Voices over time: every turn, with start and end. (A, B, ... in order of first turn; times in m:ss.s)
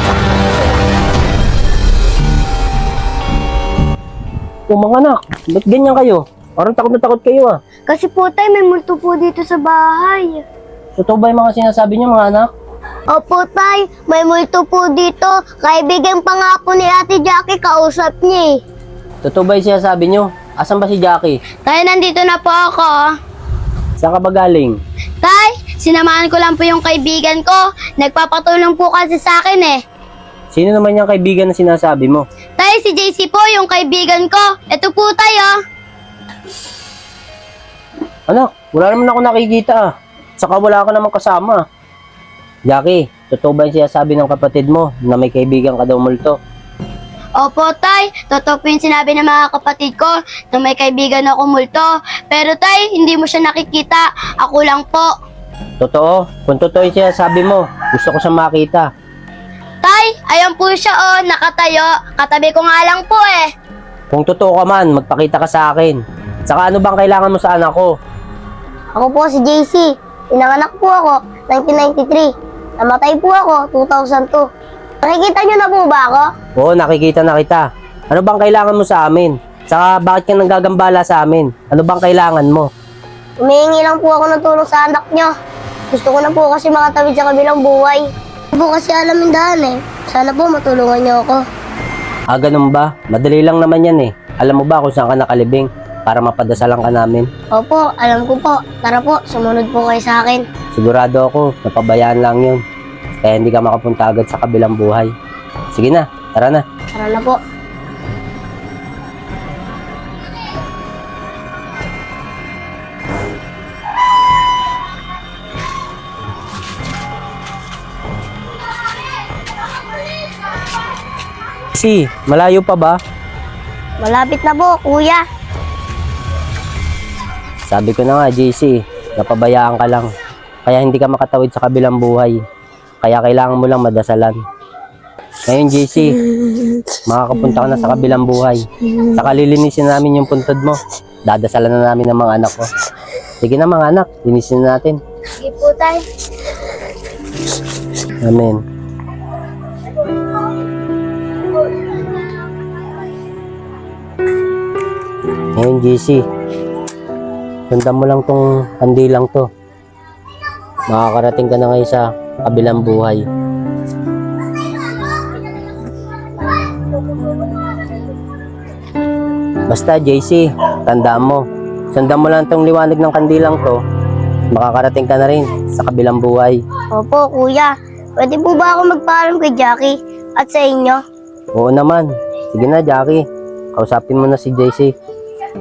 0:04.7-0:07.6 A
0:11.0-0:12.5 A
0:13.1-0:18.6 B
0:19.2-0:21.4 A
0:21.6-0:22.9 C
0:24.0-0:24.8 A
0:25.2-0:29.8 C
0:30.5-0:32.2 A
0:32.6-0:35.5 C
0:38.3-0:39.9 A
0:40.4-0:41.6 A
0:42.7-0:46.4 A
0:47.4-0:55.1 C
0:55.8-0:58.9 A
0:59.8-1:03.5 C
1:04.1-1:07.9 A
1:08.9-1:12.3 B
1:12.8-1:14.4 B
1:15.0-1:16.3 B
1:16.6-1:22.7 A
1:23.4-1:25.3 B
1:25.9-1:28.0 B
1:28.5-1:31.4 B
1:32.3-1:37.3 A
1:37.5-1:40.4 B
1:40.7-1:42.6 A
1:43.2-1:45.1 A
1:45.7-1:46.6 A
1:46.9-1:47.4 B
2:01.7-2:03.0 A
2:04.0-2:05.2 B
2:07.7-2:10.1 A
2:10.6-2:12.4 A
2:13.0-2:14.4 A
2:15.5-2:16.2 A
2:17.1-2:22.7 A
2:23.4-2:25.0 A
2:25.4-2:26.0 C
2:28.2-2:28.6 A
2:35.6-2:36.2 A
2:37.7-2:39.5 A
2:40.9-2:43.2 A
2:49.7-2:53.8 A
2:54.5-2:56.6 A
2:56.9-3:01.0 B
3:01.5-3:03.2 A
3:03.7-3:04.9 A